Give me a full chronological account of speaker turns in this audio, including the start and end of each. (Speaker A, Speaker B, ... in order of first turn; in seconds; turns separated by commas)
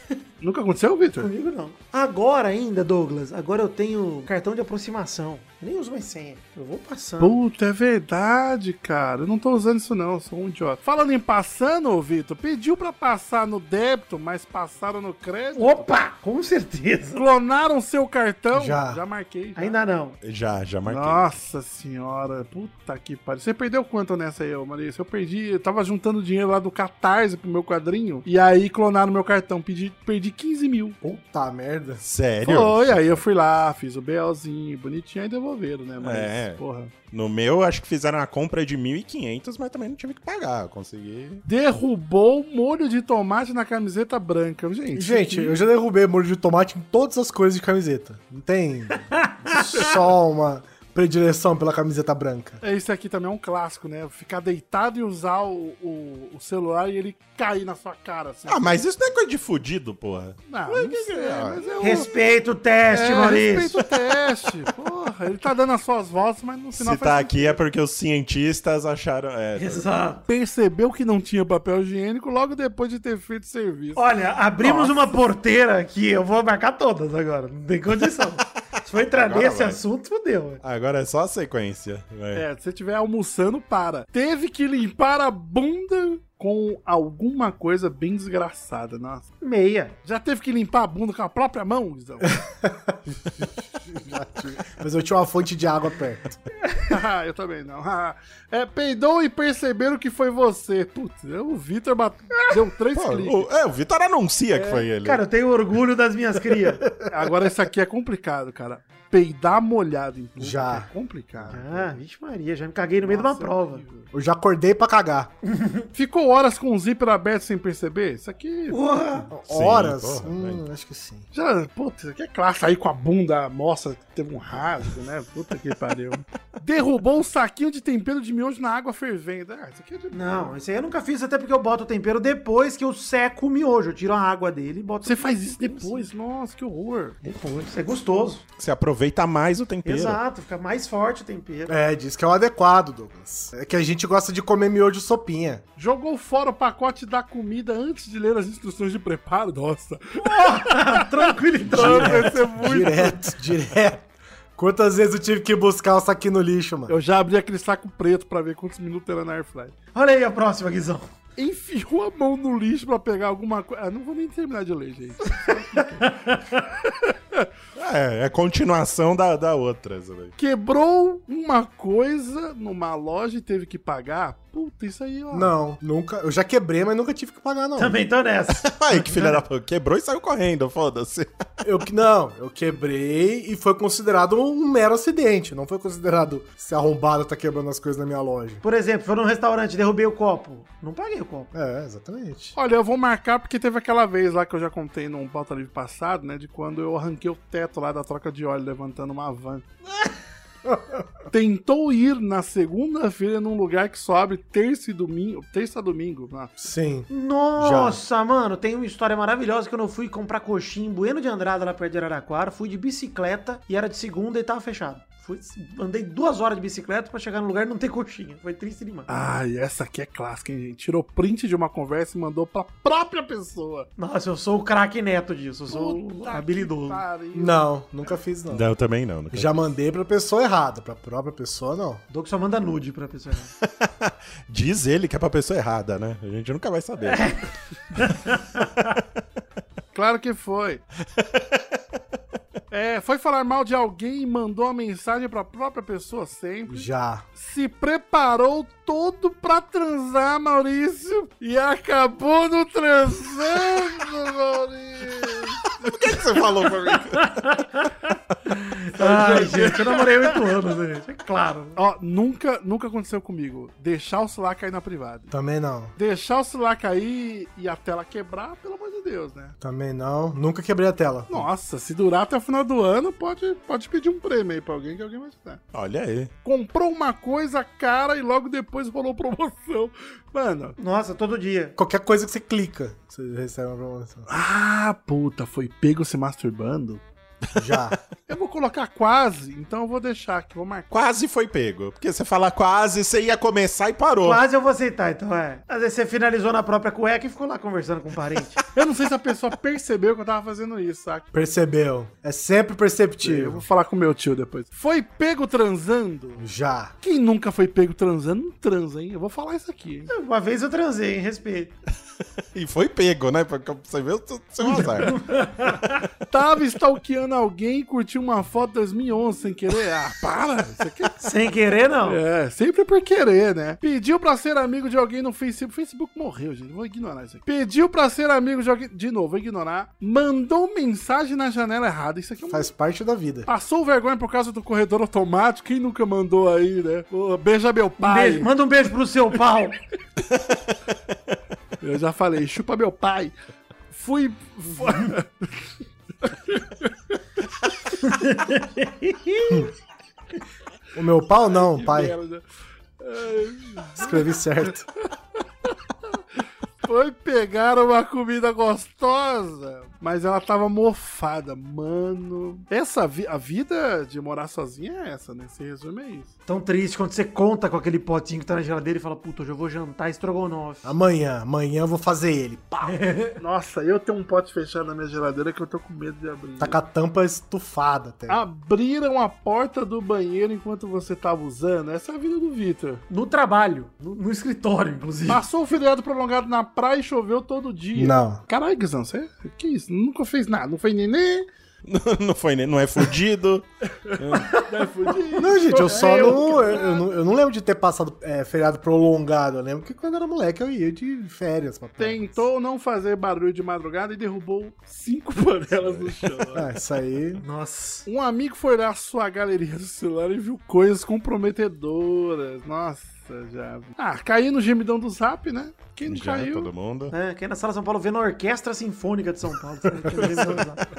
Speaker A: 0.4-1.3, Speaker B: 1.2-7.4, Speaker A: 7.2-15.9, Speaker B: 15.6-17.2, Speaker A: 17.1-19.8, Speaker C: 18.5-19.0, Speaker B: 19.6-20.2, Speaker D: 20.2-21.3, Speaker A: 20.9-31.0, Speaker C: 31.0-32.0, Speaker D: 32.0-33.2, Speaker A: 32.4-36.9, Speaker D: 36.0-41.4, Speaker A: 41.5-45.5, Speaker C: 44.9-52.6, Speaker A: 52.6-58.8, Speaker D: 58.5-61.7, Speaker A: 60.5-62.1, Speaker B: 61.8-63.8, Speaker A: 62.9-67.6, Speaker D: 66.7-69.8, Speaker B: 69.6-70.2, Speaker A: 70.3-74.0, Speaker B: 74.0-80.6, Speaker A: 74.6-75.1, Speaker D: 78.9-79.8, Speaker D: 80.6-82.5, Speaker A: 82.3-89.3, Speaker B: 89.4-89.9, Speaker A: 90.0-92.4, Speaker C: 92.5-96.4, Speaker A: 96.9-103.5, Speaker D: 102.9-105.2, Speaker B: 104.5-106.8, Speaker C: 106.8-107.3, Speaker A: 107.1-112.0, Speaker C: 110.4-110.9, Speaker B: 111.5-113.8, Speaker A: 113.0-114.1, Speaker C: 114.1-115.3, Speaker B: 115.4-115.9, Speaker A: 115.9-118.8, Speaker B: 118.7-119.3, Speaker C: 119.3-121.3, Speaker D: 119.5-120.6, Speaker A: 121.3-130.5, Speaker B: 130.1-136.1, Speaker A: 135.0-137.2, Speaker B: 137.2-138.4, Speaker D: 138.6-140.2, Speaker B: 139.8-141.7, Speaker C: 141.7-145.6, Speaker A: 145.8-153.2, Speaker B: 150.2-152.4, Speaker C: 151.7-156.9, Speaker A: 156.9-159.7, Speaker B: 159.9-161.1, Speaker A: 161.4-166.1, Speaker B: 165.9-166.6, Speaker A: 166.8-167.5, Speaker D: 167.8-170.3, Speaker A: 170.4-175.5, Speaker C: 175.3-178.0, Speaker B: 177.8-179.4, Speaker D: 178.5-181.3, Speaker C: 181.6-188.6, Speaker B: 188.6-191.5, Speaker C: 191.5-192.6, Speaker A: 192.6-199.6, Speaker C: 200.7-200.9, Speaker A: 201.3-206.6, Speaker C: 206.6-208.0, Speaker B: 207.1-219.1, Speaker A: 219.1-223.9, Speaker B: 224.0-227.0, Speaker A: 225.7-227.7, Speaker C: 227.3-228.7, Speaker D: 228.5-229.6, Speaker C: 229.3-232.0, Speaker B: 232.1-233.5, Speaker D: 233.6-237.4, Speaker B: 237.1-237.4, Speaker B: 237.9-238.8, Speaker A: 239.9-240.8, Speaker A: 242.7-255.8, Speaker C: 246.7-247.2, Speaker D: 255.8-257.4, Speaker B: 257.1-257.9, Speaker B: 258.4-261.8, Speaker A: 259.0-260.5, Speaker A: 261.8-265.3, Speaker C: 265.3-265.9, Speaker A: 266.0-269.6, Speaker C: 269.6-271.5, Speaker A: 271.3-275.6, Speaker D: 275.7-276.3, Speaker A: 276.4-280.8, Speaker B: 280.8-281.7, Speaker C: 281.8-284.3, Speaker A: 284.3-287.0, Speaker C: 287.6-288.0, Speaker A: 288.3-290.9, Speaker D: 290.9-294.4, Speaker B: 294.2-298.6, Speaker A: 298.7-301.3, Speaker C: 301.3-303.6, Speaker A: 303.2-306.4, Speaker C: 306.4-306.9, Speaker A: 307.0-310.1, Speaker B: 310.1-311.7, Speaker D: 312.5-315.2, Speaker B: 314.7-315.9, Speaker A: 314.7-315.7, Speaker A: 316.3-321.2, Speaker B: 321.2-322.2, Speaker A: 322.1-332.7, Speaker C: 332.5-333.5, Speaker A: 333.5-338.5, Speaker B: 338.0-339.8, Speaker A: 341.8-343.3, Speaker A: 343.9-345.7, Speaker A: 346.2-347.2, Speaker B: 348.0-349.6, Speaker C: 350.9-352.1, Speaker A: 351.5-352.4, Speaker A: 353.0-354.7, Speaker C: 354.0-354.9, Speaker A: 355.4-356.2, Speaker A: 356.8-366.3, Speaker B: 366.5-370.9, Speaker C: 370.8-373.0, Speaker B: 372.8-373.4, Speaker A: 373.4-376.8, Speaker C: 376.6-378.4, Speaker A: 378.3-383.0, Speaker B: 383.1-385.4, Speaker A: 385.3-391.5, Speaker C: 387.9-388.4, Speaker D: 391.9-394.6, Speaker A: 394.1-397.1, Speaker C: 395.3-402.4, Speaker A: 402.0-406.7, Speaker D: 405.8-406.3, Speaker C: 406.5-407.4, Speaker B: 407.4-408.1, Speaker A: 408.1-416.7, Speaker D: 416.1-417.1, Speaker B: 417.1-420.8